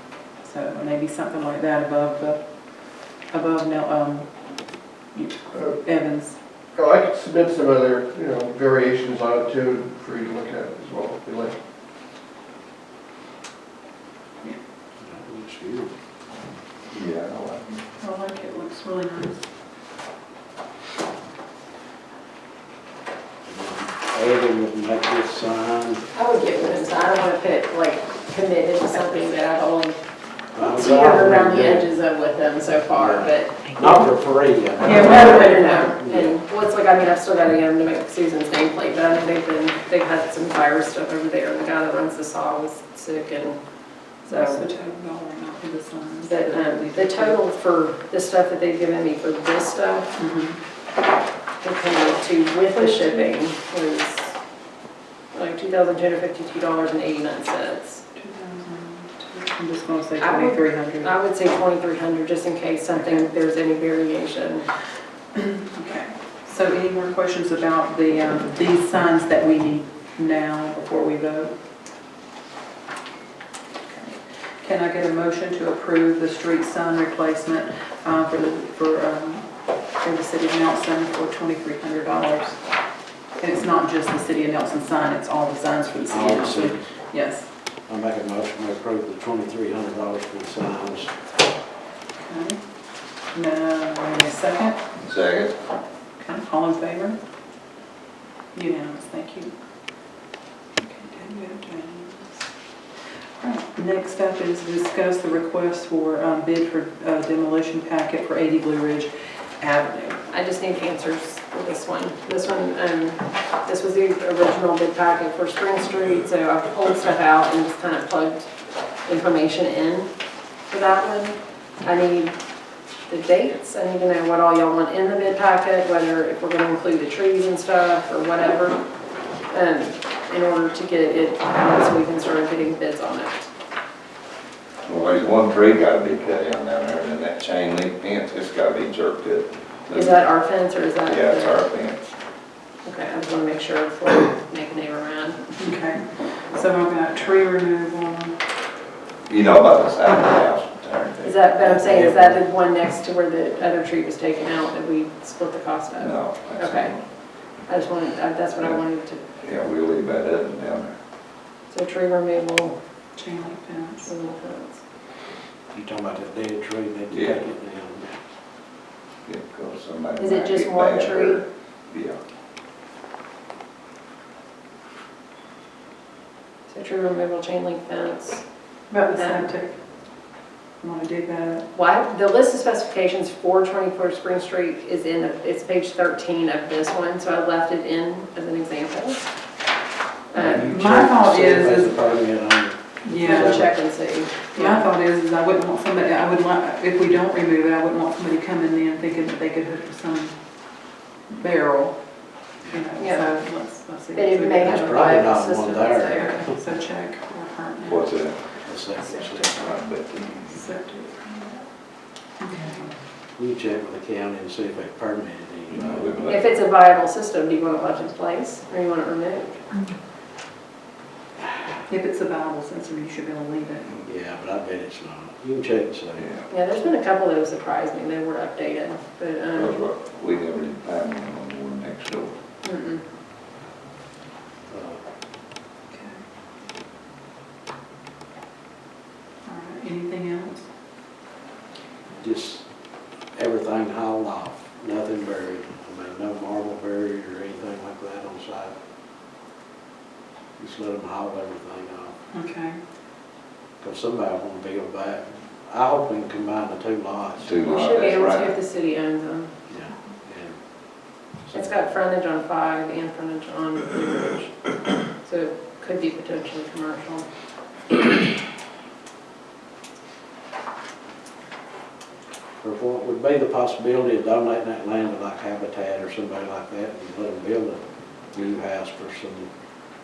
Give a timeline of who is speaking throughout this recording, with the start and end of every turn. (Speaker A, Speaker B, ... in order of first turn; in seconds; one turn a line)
Speaker A: 0.4-2.4
Speaker A: 3.3-4.3
Speaker A: 5.1-6.4
Speaker B: 6.7-11.6
Speaker C: 15.0-15.9
Speaker D: 16.9-17.8
Speaker A: 18.0-19.4
Speaker C: 23.4-26.0
Speaker E: 26.1-30.0
Speaker C: 30.5-31.9
Speaker E: 30.6-33.6
Speaker C: 32.9-36.3
Speaker A: 34.8-35.9
Speaker E: 34.9-43.6
Speaker E: 44.2-44.6
Speaker A: 44.3-47.4
Speaker E: 46.2-50.1
Speaker A: 50.1-50.6
Speaker E: 51.6-54.3
Speaker A: 52.8-53.3
Speaker E: 55.3-58.0
Speaker A: 58.1-61.1
Speaker E: 60.2-64.7
Speaker A: 65.3-71.5
Speaker A: 73.8-82.6
Speaker A: 83.4-87.5
Speaker C: 86.1-86.8
Speaker C: 87.9-91.1
Speaker A: 92.1-92.6
Speaker A: 93.3-94.8
Speaker D: 95.0-95.5
Speaker A: 96.2-97.2
Speaker A: 98.5-99.5
Speaker A: 100.8-102.4
Speaker A: 103.4-110.2
Speaker E: 110.3-118.5
Speaker E: 119.0-120.1
Speaker E: 120.7-122.3
Speaker E: 123.1-128.8
Speaker E: 129.5-133.5
Speaker D: 134.8-140.2
Speaker E: 139.9-141.7
Speaker D: 141.0-142.1
Speaker E: 142.8-145.5
Speaker A: 145.6-148.3
Speaker D: 149.3-152.3
Speaker E: 151.2-156.9
Speaker D: 156.0-157.0
Speaker E: 157.7-159.2
Speaker D: 159.4-160.9
Speaker E: 161.7-162.8
Speaker A: 163.2-164.1
Speaker E: 164.0-164.8
Speaker C: 165.7-168.2
Speaker D: 167.1-167.4
Speaker D: 169.2-172.2
Speaker E: 170.2-171.4
Speaker E: 176.7-178.4
Speaker A: 178.9-179.8
Speaker E: 179.1-179.5
Speaker A: 180.8-181.7
Speaker E: 181.7-189.2
Speaker E: 190.3-190.7
Speaker C: 190.4-193.7
Speaker A: 190.4-192.0
Speaker A: 193.0-193.7
Speaker E: 193.2-194.9
Speaker A: 194.5-200.4
Speaker A: 201.3-202.0
Speaker A: 202.6-205.0
Speaker E: 203.0-203.3
Speaker E: 204.1-206.4
Speaker C: 204.6-206.3
Speaker A: 206.1-208.1
Speaker D: 207.8-208.4
Speaker C: 208.7-209.6
Speaker D: 209.5-210.5
Speaker A: 210.2-211.6
Speaker A: 212.4-212.9
Speaker C: 213.4-216.1
Speaker D: 215.7-216.4
Speaker E: 216.3-219.6
Speaker A: 221.9-224.0
Speaker C: 224.1-226.2
Speaker D: 226.2-226.4
Speaker E: 226.5-229.8
Speaker D: 229.5-232.3
Speaker E: 232.6-233.0
Speaker C: 234.7-235.0
Speaker A: 235.9-236.2
Speaker A: 239.4-240.7
Speaker C: 242.2-242.6
Speaker C: 243.3-248.8
Speaker C: 250.6-252.2
Speaker A: 252.3-252.8
Speaker C: 253.8-257.6
Speaker D: 257.4-258.6
Speaker E: 257.6-259.5
Speaker C: 259.7-260.6
Speaker C: 261.5-261.8
Speaker E: 261.5-267.3
Speaker C: 272.6-277.8
Speaker C: 278.3-279.5